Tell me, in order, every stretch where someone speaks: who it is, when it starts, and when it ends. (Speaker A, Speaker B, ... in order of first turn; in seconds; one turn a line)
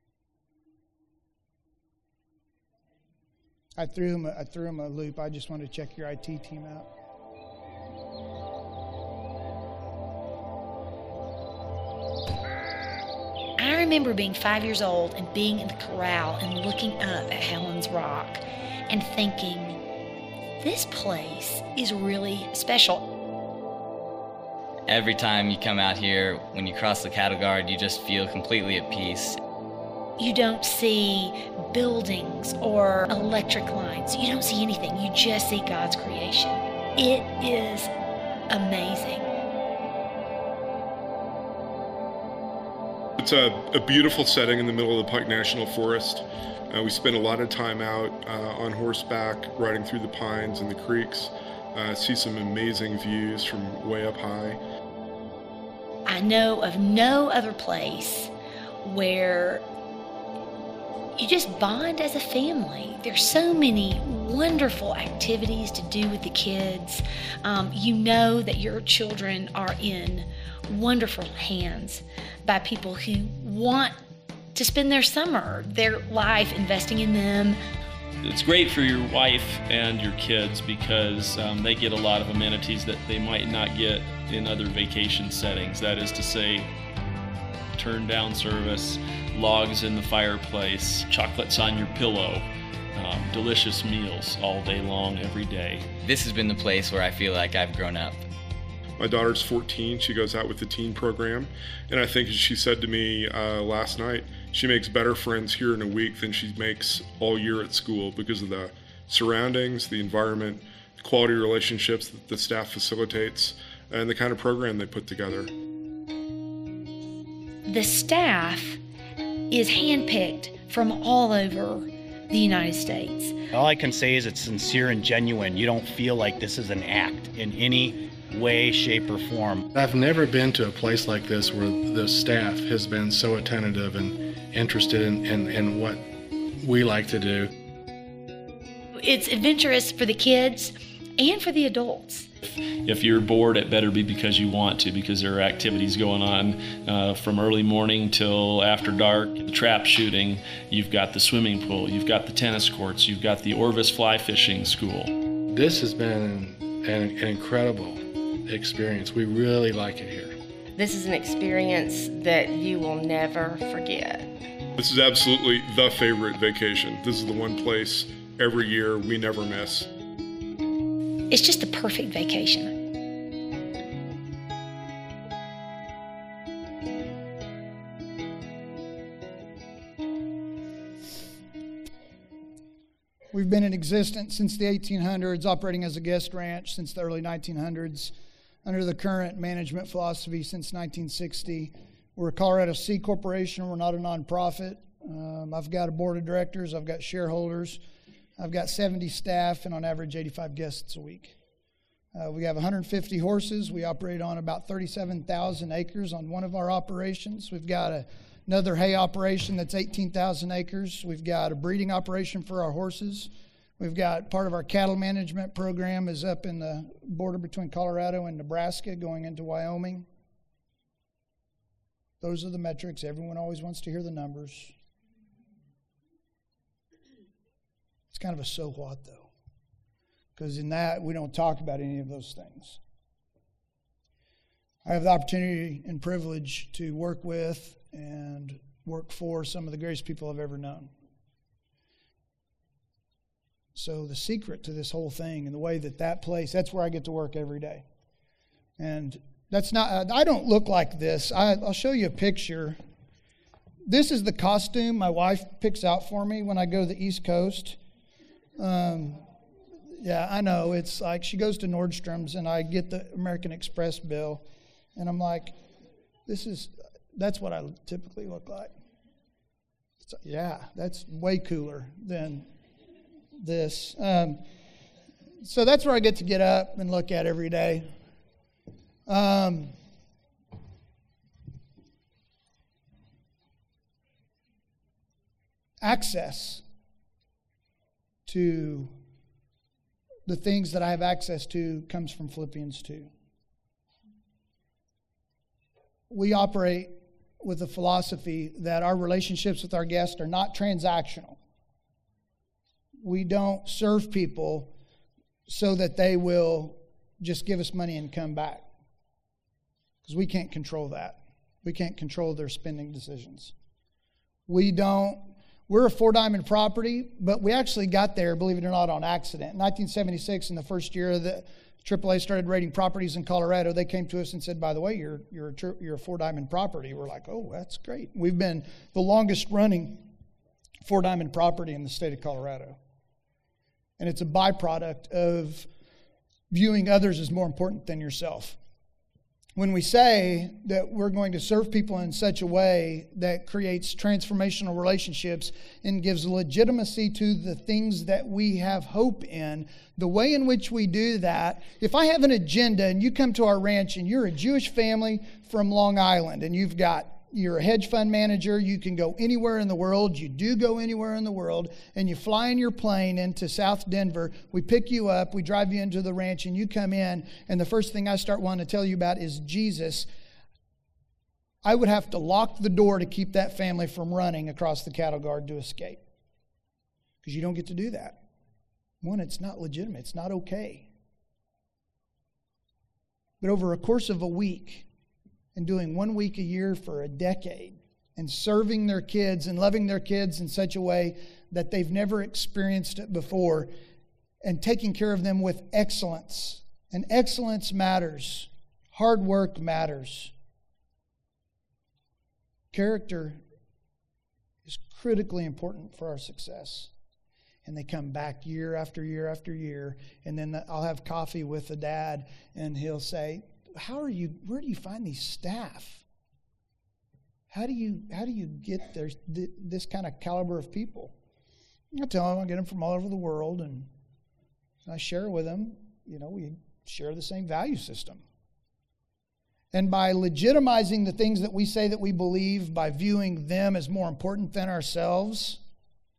Speaker A: 3.8-6.9
Speaker B: 13.6-19.8
Speaker B: 20.6-23.0
Speaker C: 24.9-29.4
Speaker B: 30.2-37.9
Speaker B: 38.5-39.3
Speaker D: 43.2-54.6
Speaker B: 56.1-58.3
Speaker B: 58.8-59.6
Speaker B: 61.2-74.0
Speaker B: 74.5-77.6
Speaker E: 78.2-86.7
Speaker E: 87.8-95.9
Speaker C: 96.0-98.3
Speaker D: 99.0-115.5
Speaker B: 117.7-118.8
Speaker B: 119.5-123.4
Speaker F: 123.5-129.6
Speaker G: 129.7-137.5
Speaker B: 139.0-142.3
Speaker E: 142.4-155.1
Speaker G: 155.5-160.4
Speaker H: 160.8-164.4
Speaker D: 164.8-169.9
Speaker B: 171.3-172.8
Speaker A: 183.3-188.1
Speaker A: 188.7-197.8
Speaker A: 198.4-201.4
Speaker A: 202.1-220.1
Speaker A: 222.2-224.7
Speaker A: 228.1-229.3
Speaker A: 230.4-232.8
Speaker A: 234.8-240.9
Speaker A: 243.8-247.8
Speaker A: 248.8-252.8
Speaker A: 253.9-257.8
Speaker A: 258.6-259.2
Speaker A: 260.0-264.4
Speaker A: 265.0-265.6
Speaker A: 266.3-268.7
Speaker A: 270.0-272.5
Speaker A: 273.4-274.4
Speaker A: 275.4-277.9
Speaker A: 279.1-279.7
Speaker A: 285.8-286.6
Speaker A: 288.3-288.9
Speaker A: 290.3-293.1
Speaker A: 296.1-301.4
Speaker A: 303.0-304.7
Speaker A: 305.5-308.7
Speaker A: 310.1-313.5
Speaker A: 314.5-330.1
Speaker A: 330.8-332.8
Speaker A: 334.0-335.7
Speaker A: 336.5-338.6
Speaker A: 339.6-370.1
Speaker A: 371.6-376.0
Speaker A: 377.2-378.2
Speaker A: 379.0-380.9
Speaker A: 383.4-384.9
Speaker A: 385.6-393.7
Speaker A: 394.4-400.3
Speaker A: 402.7-403.4
Speaker A: 404.7-406.9
Speaker A: 407.6-416.0
Speaker A: 417.5-421.1
Speaker A: 421.9-423.9
Speaker A: 424.9-428.2
Speaker A: 429.7-435.6